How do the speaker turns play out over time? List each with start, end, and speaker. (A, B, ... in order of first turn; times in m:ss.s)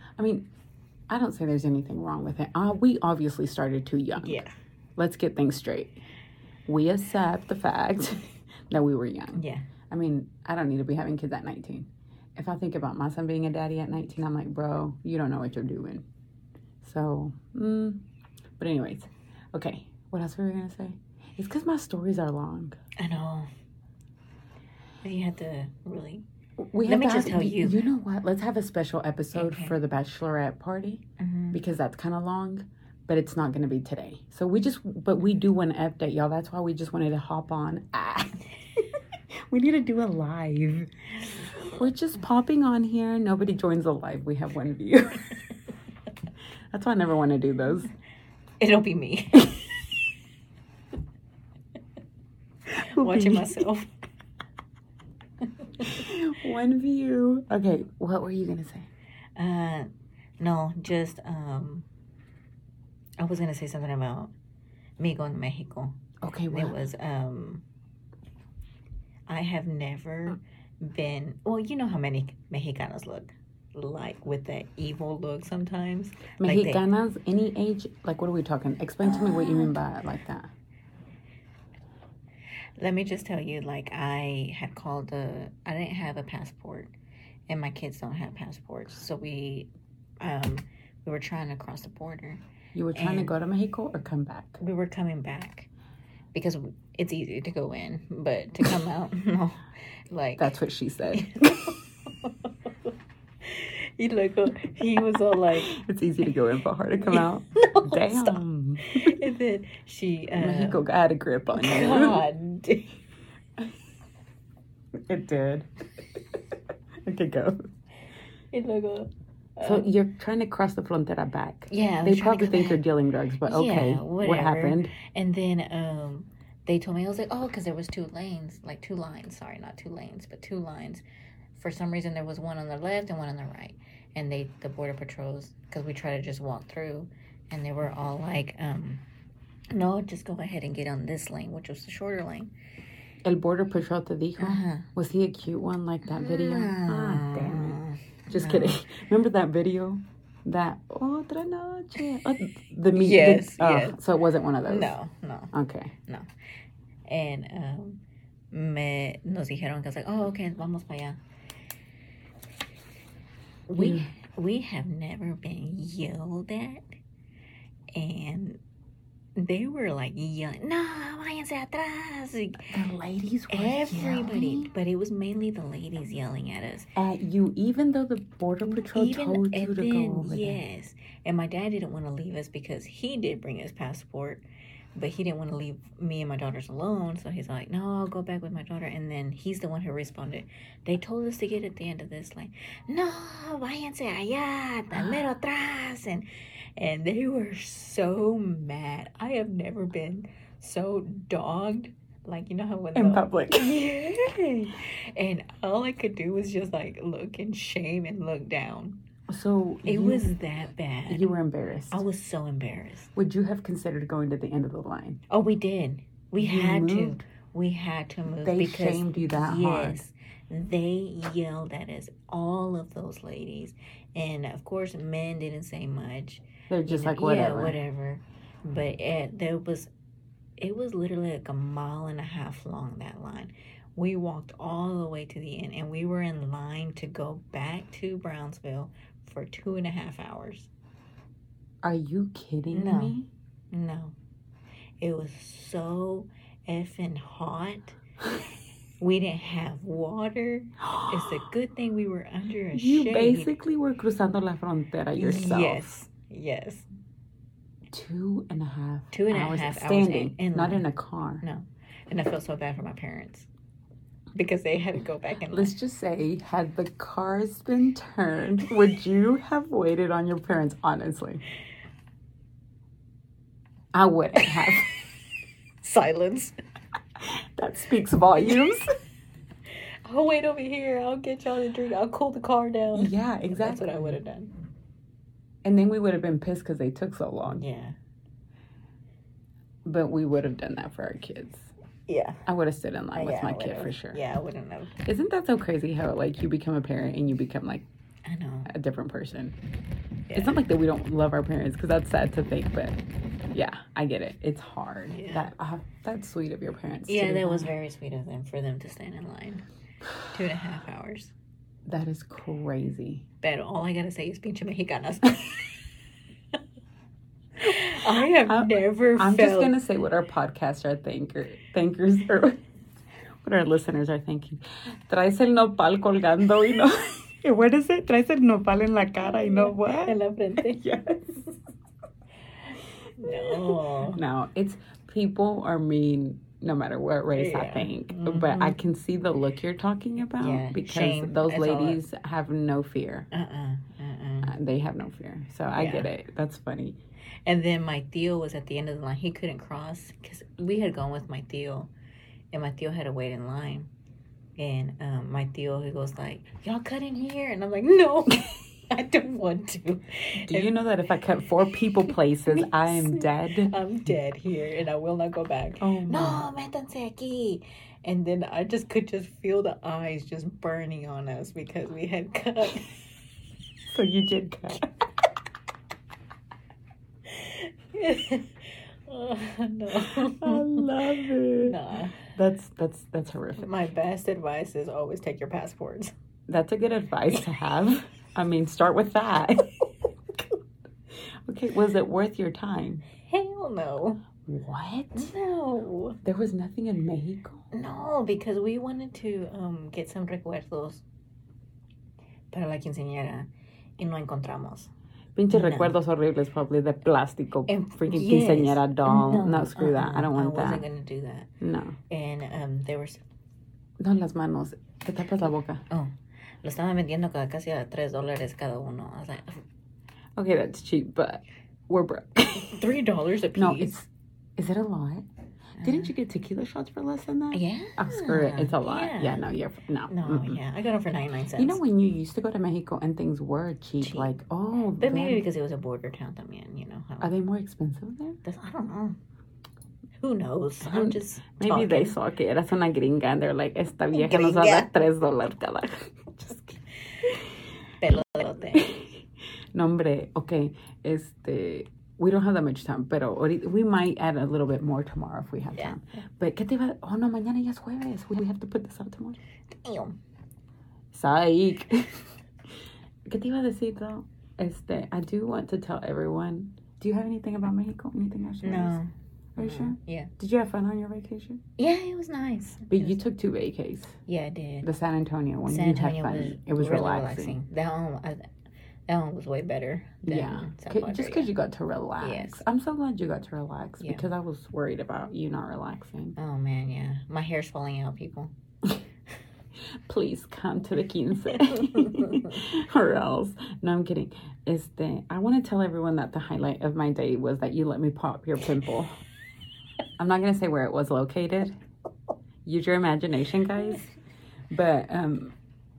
0:00.2-0:00.5 A
0:01.1-0:04.4 A
0:04.2-0:04.5 B
0:05.0-0:06.0 A
0:06.7-0:16.0 A
0:09.3-0:09.7 B
0:16.8-0:18.0 A
0:18.6-0:22.8 A
0:23.0-0:23.5 B
0:25.0-0:26.2 B
0:26.7-0:38.4 A
0:26.8-0:27.8 B
0:29.3-0:29.8 B
0:31.2-0:31.6 B
0:39.5-0:40.9 A
0:41.7-0:45.2 A
0:46.7-0:47.9 A
0:48.6-0:49.6 B
0:52.8-0:53.6 A
0:52.9-0:53.9 B
0:55.6-0:55.9 B
0:55.8-0:58.9 A
0:59.4-1:01.8 B
1:03.2-1:04.3 B
1:05.0-1:06.0 B
1:06.2-1:06.7 A
1:06.5-1:07.6 B
1:09.3-1:16.8 B
1:16.4-1:20.5 A
1:19.0-1:19.7 B
1:22.8-1:26.9 B
1:27.5-1:29.7 B
1:30.2-1:32.4 B
1:32.7-1:34.6 A
1:32.9-1:33.3 B
1:34.6-1:35.7 B
1:36.3-1:40.5 B
1:40.4-1:41.7 A
1:41.1-1:41.7 B
1:42.2-1:42.5 B
1:43.4-1:45.7 B
1:45.4-1:49.2 A
1:47.0-1:50.8 B
1:50.4-1:52.2 A
1:51.5-1:52.9 B
1:55.1-1:55.7 A
1:57.0-1:57.6 A
1:58.5-1:59.9 B
1:59.6-2:04.9 A
2:01.7-2:02.8 B
2:03.4-2:11.0 B
2:11.6-2:19.0 B
2:19.7-2:22.5 B
2:23.2-2:34.9 A
2:24.4-2:24.9 B
2:26.0-2:28.8 B
2:32.9-2:34.0 B
2:34.6-2:35.5 B
2:35.5-2:35.9 A
2:37.1-2:38.0 B
2:38.5-2:41.2 B
2:43.7-2:46.8 B
2:43.8-2:44.1 A
2:47.9-2:48.6 B
2:49.4-2:52.7 B
2:52.7-2:54.7 A
2:53.5-2:56.9 B
2:57.0-3:00.6 A
2:58.7-3:04.4 B
3:05.0-3:29.0 B
3:22.9-3:24.7 A
3:29.3-3:30.2 A
3:29.8-3:31.3 B
3:31.1-3:32.0 A
3:31.9-3:33.1 B
3:33.2-3:35.2 A
3:35.3-3:49.9 B
3:36.4-3:37.2 A
3:38.4-3:40.0 A
3:46.7-3:47.8 A
3:50.6-4:00.7 B
4:01.8-4:03.2 A
4:02.7-4:04.1 B
4:05.0-4:08.0 B
4:09.0-4:13.5 B
4:10.9-4:11.2 A
4:12.7-4:15.9 A
4:15.2-4:16.8 B
4:17.9-4:21.4 A
4:19.1-4:20.8 B
4:21.4-4:23.5 B
4:24.3-4:25.7 B
4:25.5-4:31.4 A
4:33.9-4:34.9 A
4:35.8-4:36.6 B
4:37.2-4:38.8 A
4:40.0-4:44.5 B
4:42.9-4:44.1 A
4:45.6-4:47.6 A
4:47.5-4:48.0 B
4:49.8-4:51.7 A
4:52.1-4:52.4 B
4:52.4-4:54.2 A
4:53.1-4:54.9 B
4:55.0-4:57.9 A
4:58.3-4:58.7 B
4:58.7-4:59.6 A
5:00.3-5:00.6 B
5:00.3-5:03.0 A
5:03.5-5:07.7 A
5:05.1-5:05.5 B
5:07.1-5:09.6 B
5:10.3-5:11.3 B
5:11.9-5:13.2 A
5:13.4-5:15.8 B
5:17.6-5:19.8 B
5:18.4-5:22.6 A
5:23.4-5:31.5 A
5:29.2-5:30.9 B
5:33.2-5:34.2 B
5:33.3-5:43.3 A
5:37.3-5:38.8 B
5:40.4-5:42.0 B
5:43.3-5:44.5 B
5:44.4-5:47.0 A
5:45.7-5:46.1 B
5:47.4-5:51.9 B
5:52.5-5:53.9 B
5:54.6-6:00.8 B
6:00.4-6:03.7 A
6:02.1-6:13.0 B
6:05.8-6:06.5 A
6:13.9-6:14.9 A
6:17.3-6:20.9 B
6:20.0-6:23.7 A
6:21.6-6:22.1 B
6:23.6-6:26.1 B
6:26.5-6:29.9 A
6:31.5-6:33.0 A
6:33.3-6:34.2 B
6:34.4-6:35.3 A
6:35.2-6:36.2 B
6:36.2-6:37.6 A
6:37.7-6:41.0 B
6:42.5-6:44.9 B
6:45.4-6:50.8 A
6:45.5-6:46.0 B
6:47.7-6:51.5 B
6:51.6-6:52.0 A
6:52.1-6:53.2 B
6:54.0-6:55.8 A
6:56.6-6:59.6 B
7:00.4-7:02.8 A
7:02.7-7:04.0 B
7:03.6-7:05.3 A
7:05.8-7:06.1 B
7:05.8-7:10.6 A
7:07.5-7:09.5 B
7:10.1-7:11.8 B
7:11.6-7:15.4 A
7:14.0-7:14.4 B
7:15.0-7:17.3 B
7:17.2-7:18.4 A
7:18.4-7:19.2 B
7:20.2-7:22.2 B
7:20.8-7:26.8 A
7:24.1-7:25.0 B
7:28.0-7:28.9 B
7:28.7-7:29.1 A
7:29.7-7:39.4 A
7:39.8-7:40.2 B
7:41.1-7:42.2 A
7:43.3-7:49.0 A
7:48.6-7:50.3 B
7:49.6-7:51.6 A
7:51.8-7:53.2 B
7:52.9-7:54.2 A
7:54.3-7:54.9 B
7:54.8-7:57.6 A
7:55.7-7:58.5 B
7:59.1-8:01.5 B
8:00.2-8:06.4 A
8:02.2-8:02.6 B
8:04.0-8:04.3 B
8:06.4-8:08.5 B
8:10.1-8:19.1 A
8:20.2-8:21.7 A
8:22.6-8:24.1 A
8:24.7-8:25.5 A